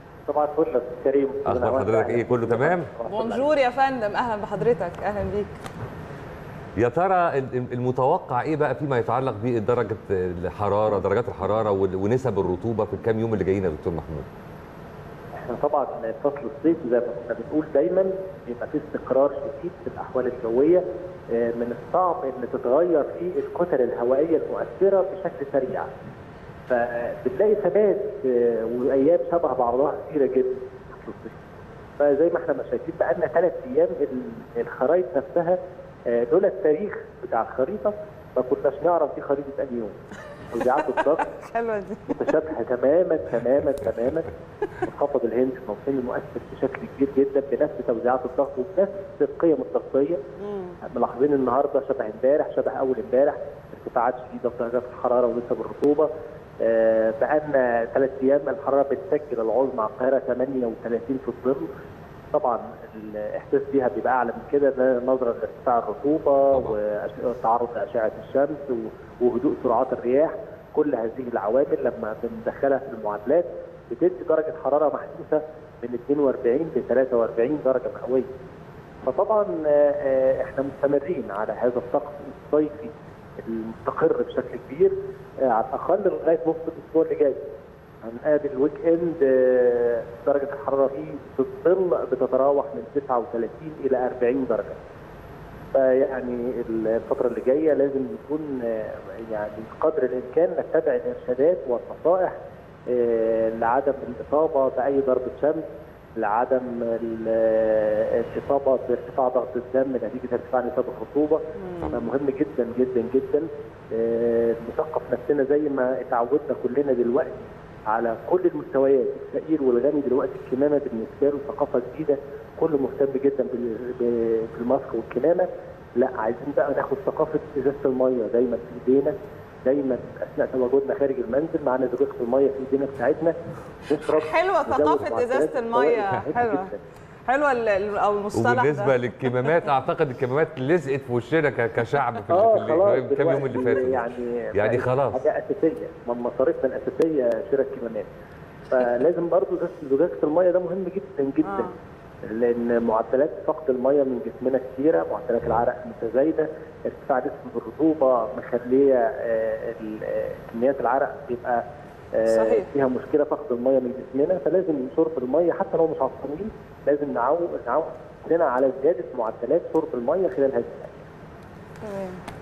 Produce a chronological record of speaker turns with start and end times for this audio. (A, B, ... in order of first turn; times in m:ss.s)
0:00.3-0:03.5 A
0:01.5-0:02.9 B
0:03.1-0:05.6 C
0:06.8-0:14.3 B
0:15.4-0:25.9 A
0:26.7-0:31.4 A
0:32.0-0:35.6 A
0:36.1-0:40.0 A
0:40.5-0:41.3 A
0:40.8-0:42.2 C
0:42.1-0:44.3 A
0:44.8-0:50.2 A
0:50.4-0:50.8 C
0:50.8-0:56.1 A
0:56.6-1:01.7 A
1:02.3-1:18.3 A
1:06.5-1:06.8 B
1:19.0-1:27.4 A
1:28.0-1:34.8 A
1:35.7-1:42.4 A
1:42.9-1:45.7 A
1:46.2-2:09.1 A
1:51.6-1:52.1 C
2:09.6-2:13.4 A
2:13.9-2:16.8 A
2:14.0-2:16.7 C
2:17.3-2:19.7 C
2:18.3-2:25.2 B
2:22.3-2:28.1 A
2:28.7-2:31.7 A
2:31.4-2:31.7 C
2:32.2-2:41.6 A
2:42.1-2:51.0 A
2:42.3-2:42.7 C
2:51.8-2:52.2 C